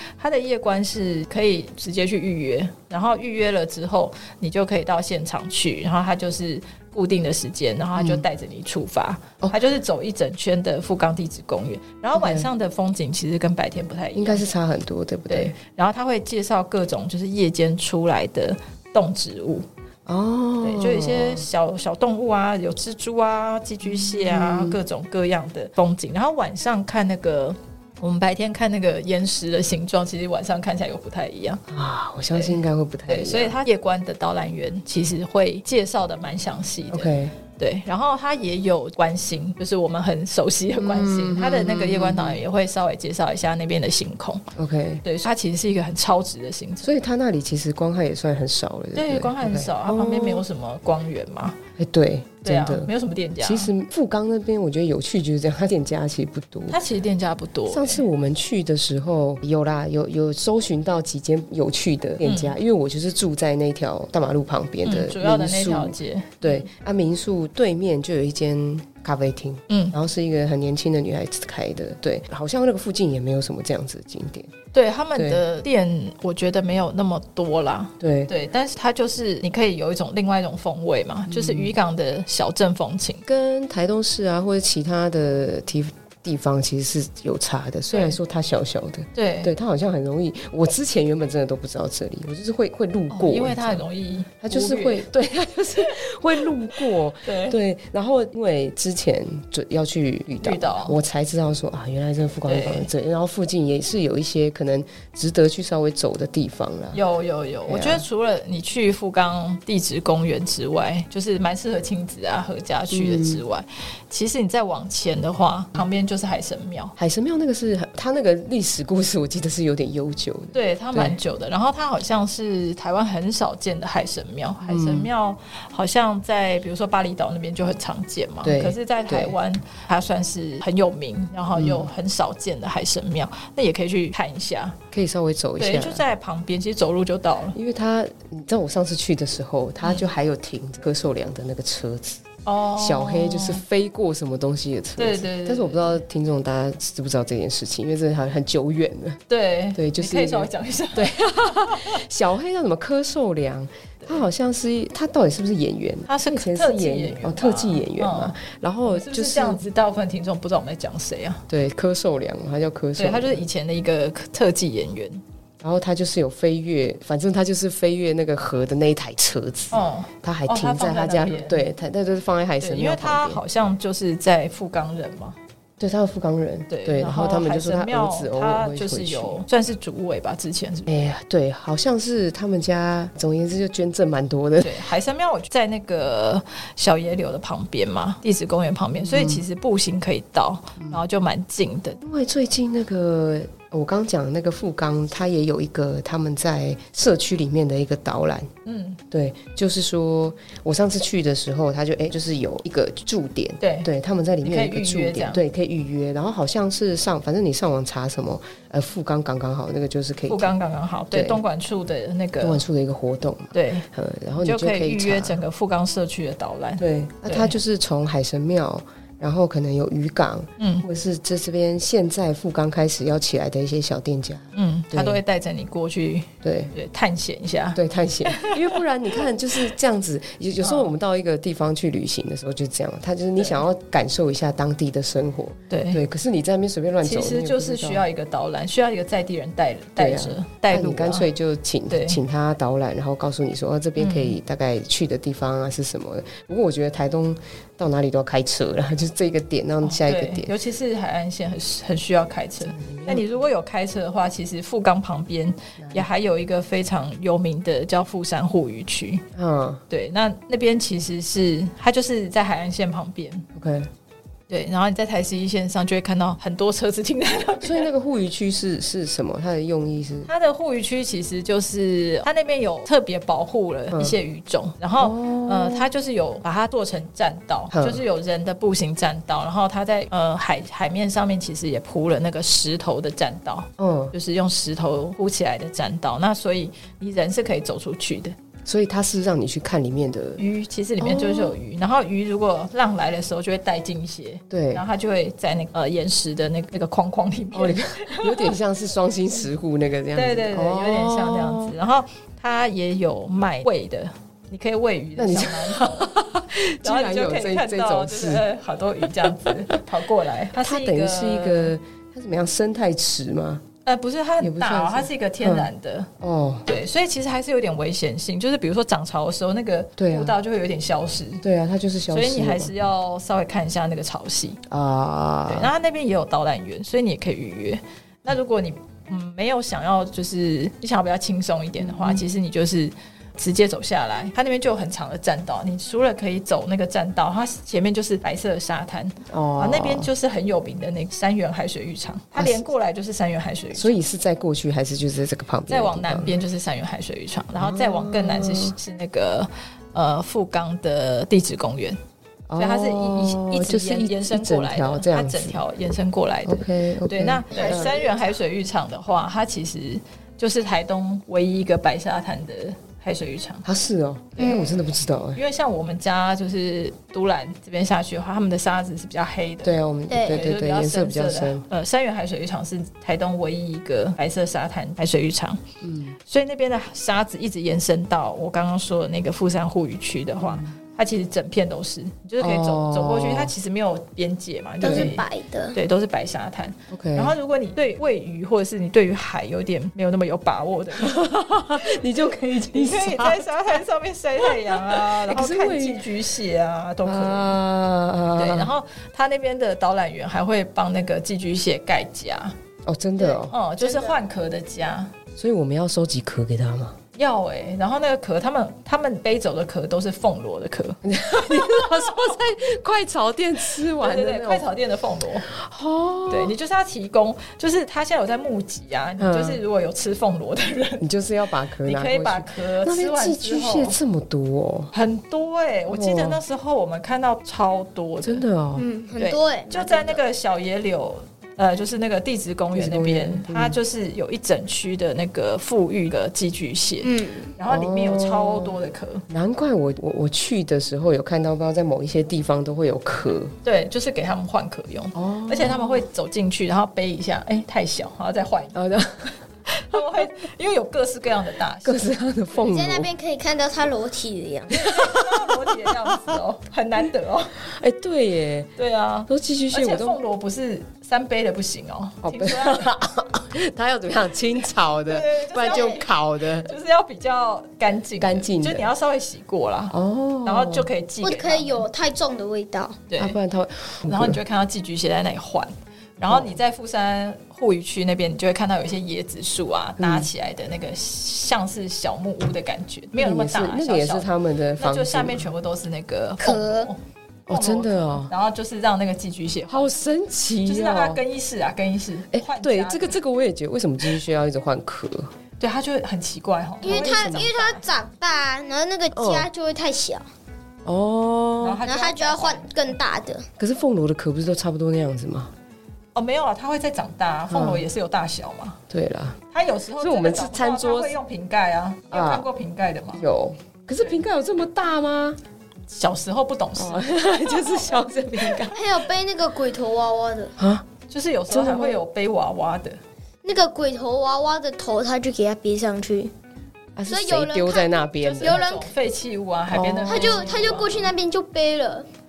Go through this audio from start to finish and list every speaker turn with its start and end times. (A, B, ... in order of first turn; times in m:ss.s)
0:00.2-0:14.5 A
0:08.0-0:08.2 B
0:12.1-0:12.5 B
0:14.1-0:15.6 B
0:15.3-0:19.7 A
0:20.1-0:21.5 B
0:20.6-0:31.6 A
0:23.8-0:24.8 B
0:31.7-0:33.6 B
0:32.3-0:44.4 A
0:36.9-0:37.4 B
0:40.7-0:42.4 B
0:44.6-0:45.0 B
0:45.0-0:47.0 A
0:46.8-0:50.5 B
0:48.9-0:51.6 A
0:51.8-0:56.8 B
0:52.4-0:53.7 A
0:56.7-0:58.0 A
0:57.7-1:14.5 B
1:02.2-1:02.6 A
1:04.8-1:06.7 A
1:09.7-1:10.0 A
1:14.7-1:23.2 A
1:15.2-1:15.4 B
1:18.0-1:18.3 B
1:21.3-1:21.8 B
1:23.3-1:33.8 B
1:27.9-1:28.2 A
1:29.2-1:29.5 A
1:33.1-1:35.1 A
1:34.4-1:47.0 B
1:36.9-1:37.6 A
1:40.4-1:41.0 A
1:42.5-1:42.9 A
1:46.9-1:57.0 A
1:47.7-1:48.0 B
1:52.9-1:53.4 B
1:57.0-2:01.2 B
2:00.5-2:14.8 A
2:04.6-2:05.1 B
2:08.4-2:09.4 B
2:11.5-2:11.9 B
2:14.9-2:16.0 B
2:15.6-2:17.6 A
2:17.5-2:22.2 B
2:19.8-2:20.1 A
2:22.4-2:23.6 A
2:22.8-2:29.2 B
2:25.0-2:26.0 A
2:29.3-2:32.0 A
2:29.8-2:39.6 B
2:36.1-2:41.4 A
2:41.5-2:43.4 B
2:43.0-2:45.2 A
2:45.6-2:53.4 B
2:49.7-2:51.7 A
2:52.6-2:55.4 A
2:55.8-2:59.4 B
2:56.7-3:00.9 A
3:00.9-3:04.8 B
3:04.6-3:12.0 A
3:09.0-3:09.4 B
3:12.0-3:18.5 B
3:18.6-3:19.0 A
3:19.1-3:30.5 B
3:23.6-3:23.9 A
3:24.4-3:25.4 A
3:30.3-3:32.6 A
3:31.1-3:31.4 B
3:32.4-3:35.4 B
3:33.5-3:33.9 A
3:34.4-3:37.6 A
3:36.8-3:45.2 B
3:40.6-3:40.9 A
3:44.5-3:48.8 A
3:46.4-3:46.7 B
3:47.8-3:58.1 B
3:50.6-3:50.9 A
3:53.4-3:53.6 A
3:55.7-3:56.0 A
3:57.0-4:01.3 A
4:00.0-4:10.5 B
4:01.9-4:02.2 A
4:04.0-4:04.4 A
4:09.8-4:19.2 A
4:12.6-4:13.2 B
4:15.8-4:16.1 B
4:19.4-4:19.8 B
4:19.9-4:23.5 A
4:23.6-4:23.9 B
4:24.5-4:27.9 A
4:27.6-4:30.3 B
4:30.3-4:48.4 A
4:33.9-4:34.2 B
4:35.0-4:35.9 B
4:37.7-4:38.0 B
4:43.8-4:44.2 B
4:48.7-4:50.4 B
4:50.4-4:58.5 A
4:51.0-4:51.6 B
4:54.5-4:54.8 B
4:57.5-5:01.8 B
5:00.1-5:06.1 A
5:05.2-5:08.5 B
5:06.8-5:11.8 A
5:09.0-5:09.6 B
5:10.5-5:13.6 B
5:13.8-5:16.1 A
5:14.4-5:16.7 B
5:16.7-5:21.4 A
5:20.0-5:20.4 B
5:21.4-5:22.8 B
5:22.1-5:24.6 A
5:24.7-5:25.7 B
5:25.5-5:44.0 A
5:31.8-5:32.2 B
5:39.3-5:40.1 B
5:42.4-5:42.7 B
5:43.7-5:46.4 B
5:45.7-5:52.0 A
5:47.6-5:48.8 B
5:52.5-5:55.6 B
5:52.6-6:03.7 A
5:56.4-5:58.0 B
5:57.6-5:57.8 C
6:03.6-6:05.4 B
6:04.4-6:04.6 C
6:04.5-6:04.8 A
6:05.3-6:15.6 A
6:09.6-6:11.7 B
6:10.1-6:10.4 C
6:15.8-6:16.2 B
6:16.2-6:32.0 A
6:20.4-6:20.7 B
6:22.4-6:23.5 B
6:24.8-6:25.1 B
6:24.8-6:25.8 C
6:26.9-6:27.4 B
6:31.0-6:33.8 B
6:32.7-6:37.6 A
6:34.4-6:36.0 B
6:37.0-6:38.7 B
6:38.4-6:42.6 A
6:42.9-6:43.6 B
6:43.2-6:45.1 A
6:43.8-6:44.2 C
6:45.4-6:47.0 B
6:47.2-6:52.4 A
6:51.0-6:54.7 B
6:53.9-6:55.5 A
6:55.5-6:56.6 B
6:56.3-7:01.0 A
6:59.2-6:59.6 B
7:01.0-7:04.9 B
7:01.8-7:04.0 A
7:04.9-7:08.4 A
7:05.9-7:06.4 B
7:08.2-7:08.9 B
7:08.8-7:10.2 C
7:09.2-7:19.3 A
7:12.7-7:13.8 B
7:17.0-7:17.5 C
7:17.7-7:18.8 B
7:19.3-7:23.5 B
7:23.6-7:28.8 A
7:25.1-7:26.1 B
7:28.7-7:29.4 B
7:29.7-7:32.1 A
7:31.8-7:33.1 B
7:32.6-7:34.8 C
7:34.8-7:36.2 B
7:34.8-7:37.6 A
7:37.6-7:38.7 B
7:38.8-7:42.9 A
7:39.3-7:40.2 B
7:42.2-7:46.8 B
7:45.1-7:51.9 A
7:45.7-7:46.0 C
7:48.2-7:48.9 B
7:49.9-7:50.9 B
7:51.2-7:53.0 C
7:53.1-7:53.4 A
7:53.2-7:54.4 B
7:54.0-8:07.0 A
7:56.3-7:56.6 B
8:00.0-8:00.3 B
8:03.2-8:05.5 B
8:06.4-8:06.9 C
8:07.5-8:08.3 B
8:07.5-8:09.9 A
8:09.7-8:11.2 B
8:10.6-8:13.2 A
8:12.3-8:15.3 B
8:15.6-8:17.9 A
8:16.8-8:20.3 C
8:16.8-8:17.5 B
8:19.1-8:19.5 B
8:20.8-8:21.8 B
8:21.6-8:23.0 A
8:21.8-8:23.5 C
8:23.6-8:25.5 B
8:26.1-8:28.8 A
8:27.5-8:27.9 B
8:28.9-8:29.4 B
8:29.5-8:33.2 A
8:30.0-8:31.2 B
8:32.1-8:32.5 B
8:33.1-8:35.4 B
8:35.9-8:38.0 A
8:36.8-8:39.0 B
8:38.7-8:40.6 C
8:40.6-8:40.9 B
8:41.1-8:43.0 A
8:41.5-8:42.0 B
8:43.4-8:46.3 C
8:47.0-8:48.6 B
8:47.1-8:48.9 C
8:48.2-8:51.1 A
8:49.7-8:50.5 B
8:50.1-8:52.1 C